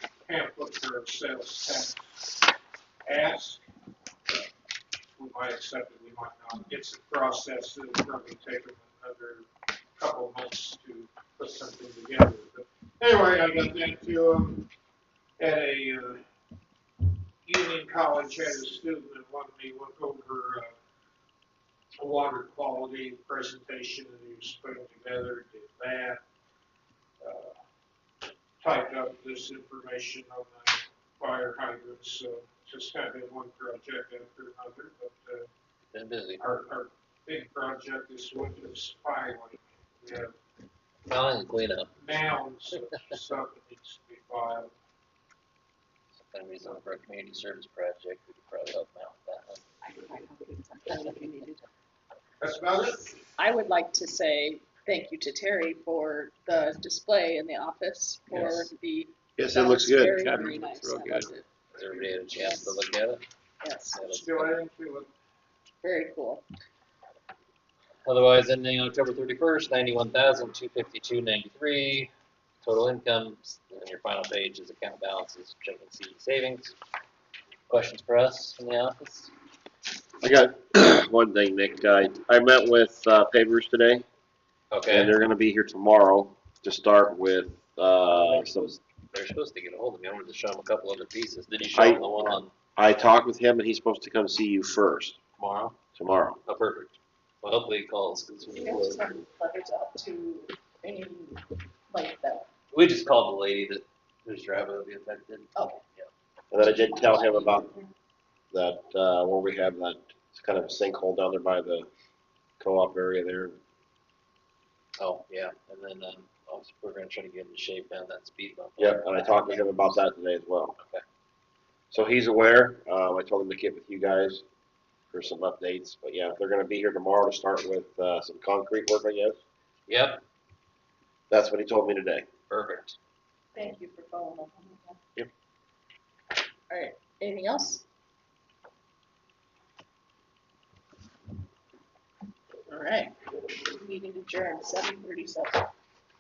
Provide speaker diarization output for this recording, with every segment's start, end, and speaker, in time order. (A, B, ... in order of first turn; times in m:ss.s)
0:00.2-0:02.3 A
0:03.0-0:03.6 A
0:05.2-0:14.7 A
0:15.4-0:16.2 A
0:17.4-0:20.8 A
0:22.0-0:26.2 A
0:27.2-0:27.6 A
0:28.6-0:35.5 A
0:35.9-0:36.4 B
0:36.4-0:40.4 A
0:41.0-0:41.9 B
0:42.0-0:44.7 A
0:46.2-0:49.6 B
0:49.8-0:51.6 C
0:52.4-0:53.1 A
0:53.3-1:01.5 C
0:58.3-0:58.7 B
0:59.4-1:01.3 D
1:01.7-1:03.2 B
1:02.3-1:02.8 C
1:03.6-1:04.6 C
1:03.9-1:04.5 B
1:04.1-1:05.1 A
1:05.8-1:06.4 C
1:08.0-1:12.1 B
1:12.6-1:16.8 B
1:17.7-1:19.3 B
1:20.2-1:24.1 D
1:24.7-1:25.1 B
1:24.9-1:28.7 D
1:28.1-1:32.5 B
1:31.7-1:32.0 D
1:32.8-1:35.2 D
1:35.4-1:35.8 B
1:36.0-1:36.4 D
1:36.5-1:39.1 B
1:38.5-1:42.5 C
1:42.7-1:46.1 B
1:46.5-1:47.7 D
1:46.6-1:47.9 C
1:48.5-1:51.9 D
1:52.6-1:53.6 D
1:55.0-1:59.2 B
1:58.8-2:00.8 D
1:59.3-1:59.6 C
2:00.8-2:01.0 B
2:01.9-2:04.4 D
2:05.1-2:09.4 D
2:09.9-2:10.2 B
2:11.3-2:12.3 D
2:12.5-2:13.0 B
2:13.5-2:15.0 C
2:16.7-2:17.8 C
2:22.7-2:25.7 C